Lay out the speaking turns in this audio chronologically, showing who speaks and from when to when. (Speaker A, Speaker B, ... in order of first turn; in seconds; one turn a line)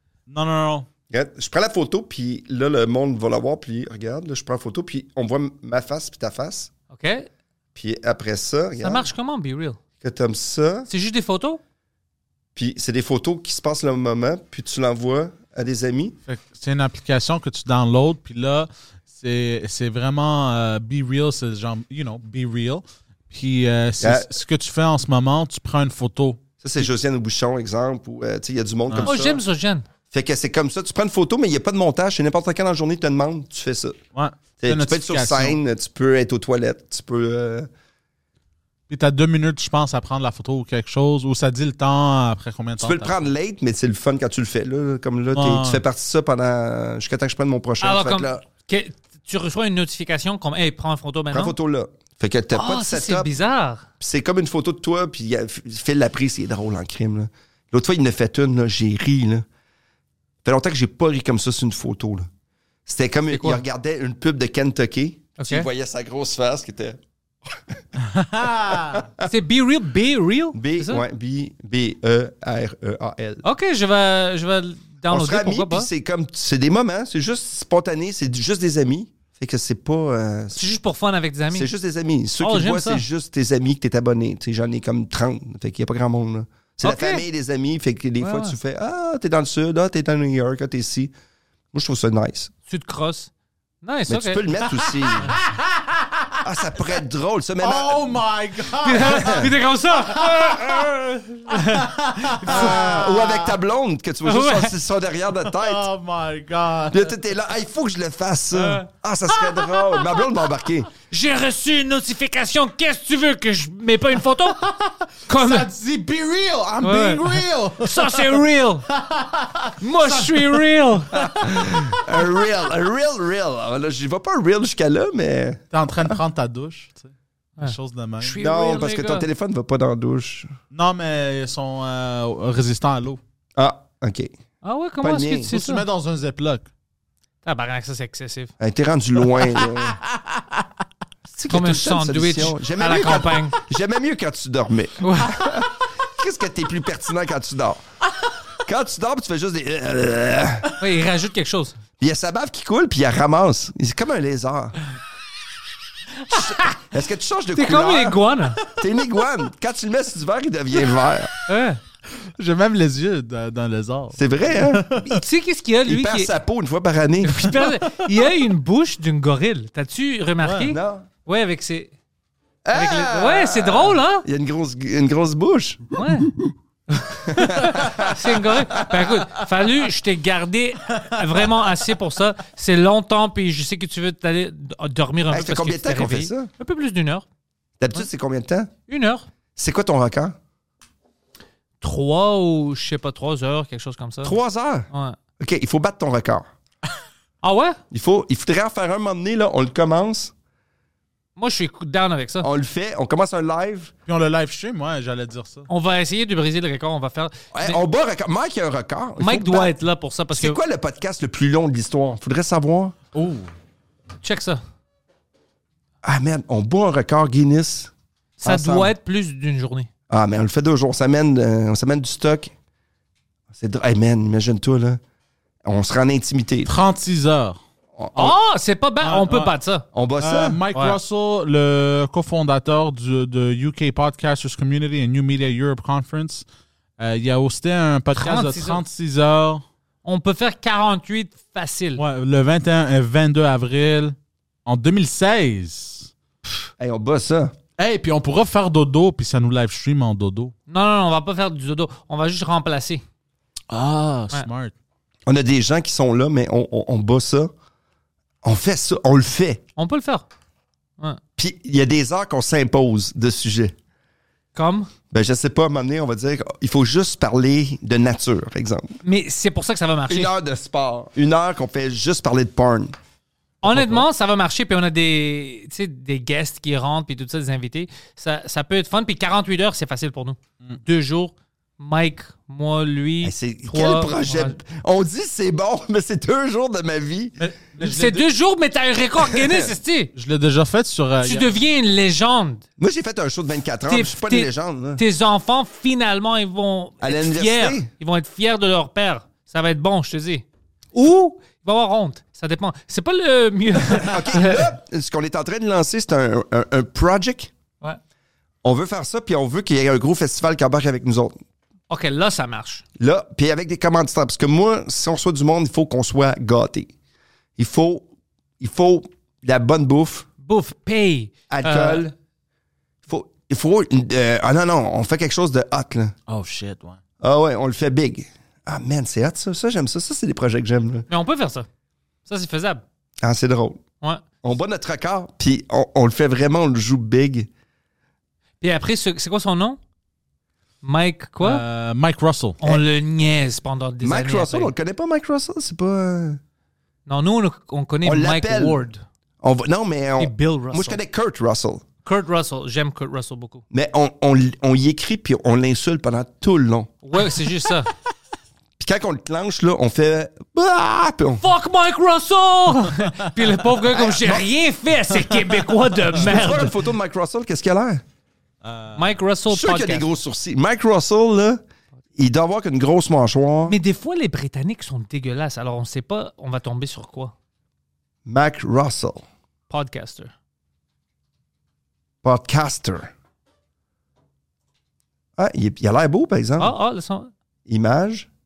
Speaker A: 0.3-0.9
Speaker B: 1.1-6.7
Speaker C: 6.9-7.3
Speaker B: 7.8-9.1
Speaker C: 8.8-9.8
Speaker B: 10.0-10.9
Speaker C: 10.9-11.6
Speaker B: 12.6-16.2
Speaker A: 16.3-26.4
Speaker B: 24.0-24.3
Speaker B: 26.6-29.4
Speaker C: 29.1-29.9
Speaker B: 30.1-34.0
Speaker A: 34.1-35.6
Speaker B: 34.6-37.7
Speaker A: 38.9-43.3
Speaker B: 42.8-48.4
Speaker A: 45.3-45.8
Speaker C: 47.8-51.5
Speaker B: 51.3-53.3
Speaker C: 52.5-53.9
Speaker B: 54.0-59.5
Speaker B: 60.4-62.3
Speaker B: 62.9-67.8
Speaker C: 63.3-63.6
Speaker C: 65.4-65.7
Speaker A: 68.1-69.0
Speaker B: 68.7-69.2
Speaker C: 69.2-71.0
Speaker B: 70.5-73.4
Speaker C: 73.4-75.9
Speaker B: 75.1-80.8
Speaker C: 80.5-81.7
Speaker B: 81.5-91.1
Speaker C: 82.4-83.0
Speaker C: 86.8-87.2
Speaker C: 88.2-88.6
Speaker B: 91.7-92.5
Speaker C: 92.7-93.3
Speaker C: 93.8-95.3
Speaker B: 94.1-95.4
Speaker A: 95.4-96.4
Speaker B: 96.4-98.2
Speaker A: 97.6-100.9
Speaker C: 98.8-103.4
Speaker B: 99.0-99.5
Speaker A: 101.5-103.1
Speaker B: 102.5-105.9
Speaker C: 104.2-104.7
Speaker A: 105.5-107.1
Speaker B: 106.9-110.9
Speaker C: 108.5-108.9
Speaker C: 111.1-114.7
Speaker A: 114.6-120.6
Speaker C: 115.3-115.7
Speaker C: 116.8-118.9
Speaker C: 119.8-121.2
Speaker A: 121.2-122.0
Speaker B: 121.3-126.2
Speaker A: 125.7-128.4
Speaker C: 127.6-129.3
Speaker B: 128.4-130.5
Speaker A: 130.7-133.2
Speaker B: 133.6-134.3
Speaker C: 134.6-135.8
Speaker B: 135.0-135.5
Speaker A: 135.5-136.7
Speaker C: 137.4-138.5
Speaker B: 138.6-140.0
Speaker A: 140.2-140.4
Speaker B: 141.3-147.8
Speaker C: 141.5-143.6
Speaker C: 145.0-145.5
Speaker B: 148.7-150.8
Speaker C: 150.8-151.8
Speaker B: 152.0-154.8
Speaker C: 156.3-156.8
Speaker B: 156.3-161.3
Speaker C: 157.6-158.6
Speaker C: 161.5-161.8
Speaker A: 162.4-165.2
Speaker B: 164.1-165.2
Speaker C: 165.1-166.3
Speaker B: 165.9-167.6
Speaker C: 167.2-171.9
Speaker A: 170.4-170.7
Speaker B: 170.7-171.1
Speaker B: 172.7-176.5
Speaker C: 172.7-174.3
Speaker C: 175.9-176.3
Speaker C: 176.9-187.2
Speaker B: 177.1-179.1
Speaker B: 185.3-186.5
Speaker B: 187.8-188.7
Speaker C: 188.9-189.3
Speaker B: 189.6-190.4
Speaker C: 191.8-194.4
Speaker B: 194.2-194.9
Speaker C: 194.9-195.2
Speaker B: 195.4-196.4
Speaker C: 197.4-197.8
Speaker B: 197.9-200.3
Speaker C: 201.4-202.5
Speaker B: 202.4-203.9
Speaker A: 204.1-205.7
Speaker C: 205.7-207.8
Speaker B: 207.5-209.8
Speaker C: 209.2-210.6
Speaker B: 210.3-213.0
Speaker A: 213.1-213.5
Speaker C: 214.2-214.6
Speaker B: 216.0-217.9
Speaker C: 218.4-219.9
Speaker B: 218.4-218.9
Speaker B: 220.1-222.5
Speaker B: 223.5-225.0
Speaker B: 225.7-226.7
Speaker A: 226.7-227.6
Speaker B: 228.0-228.3
Speaker C: 228.1-229.8
Speaker A: 229.0-229.5
Speaker B: 229.9-230.6
Speaker A: 230.2-236.4
Speaker C: 230.7-231.0
Speaker A: 237.0-239.6
Speaker C: 238.2-238.8
Speaker C: 240.1-242.0
Speaker A: 242.0-244.2
Speaker A: 244.7-246.1
Speaker B: 246.8-247.5
Speaker A: 247.8-250.5
Speaker C: 250.7-253.0
Speaker A: 253.7-254.7
Speaker B: 255.3-257.5
Speaker B: 258.4-259.6
Speaker C: 259.8-260.3
Speaker B: 261.4-263.7
Speaker C: 264.6-264.9
Speaker B: 265.1-269.0
Speaker C: 269.0-270.3
Speaker B: 270.1-272.9
Speaker C: 273.6-284.6
Speaker A: 273.7-274.0
Speaker B: 283.2-287.4
Speaker A: 287.4-288.3
Speaker C: 287.8-290.1
Speaker B: 289.4-289.7
Speaker A: 290.1-291.5
Speaker C: 291.2-292.6
Speaker B: 292.8-295.0
Speaker C: 293.9-304.7
Speaker B: 297.0-297.9
Speaker B: 304.0-307.5
Speaker B: 308.6-311.4
Speaker C: 311.9-312.8
Speaker B: 313.0-316.9
Speaker B: 317.6-318.1
Speaker B: 318.6-320.3
Speaker C: 320.4-322.1
Speaker B: 321.5-322.1
Speaker B: 323.1-326.1
Speaker A: 326.3-327.0
Speaker B: 327.2-331.1
Speaker C: 331.1-331.7
Speaker C: 332.3-332.8
Speaker B: 333.2-333.8
Speaker B: 334.4-337.5
Speaker C: 338.6-339.8
Speaker C: 340.8-341.6
Speaker A: 341.4-342.6
Speaker C: 342.6-344.7
Speaker B: 344.0-346.4
Speaker C: 347.1-349.0
Speaker B: 348.0-348.8
Speaker B: 349.4-351.8
Speaker C: 350.2-351.0
Speaker C: 352.1-353.6
Speaker B: 353.7-356.9
Speaker C: 357.0-357.9
Speaker B: 358.8-361.4
Speaker C: 361.4-366.7
Speaker B: 363.9-364.5
Speaker A: 365.3-365.7
Speaker B: 366.2-368.0
Speaker A: 368.6-369.0
Speaker C: 368.9-370.1
Speaker B: 369.5-371.6
Speaker B: 372.2-373.8
Speaker C: 373.7-377.3
Speaker B: 378.2-379.3
Speaker C: 379.7-380.3
Speaker B: 382.2-383.1
Speaker B: 385.4-386.8
Speaker C: 386.6-387.3
Speaker B: 387.7-388.3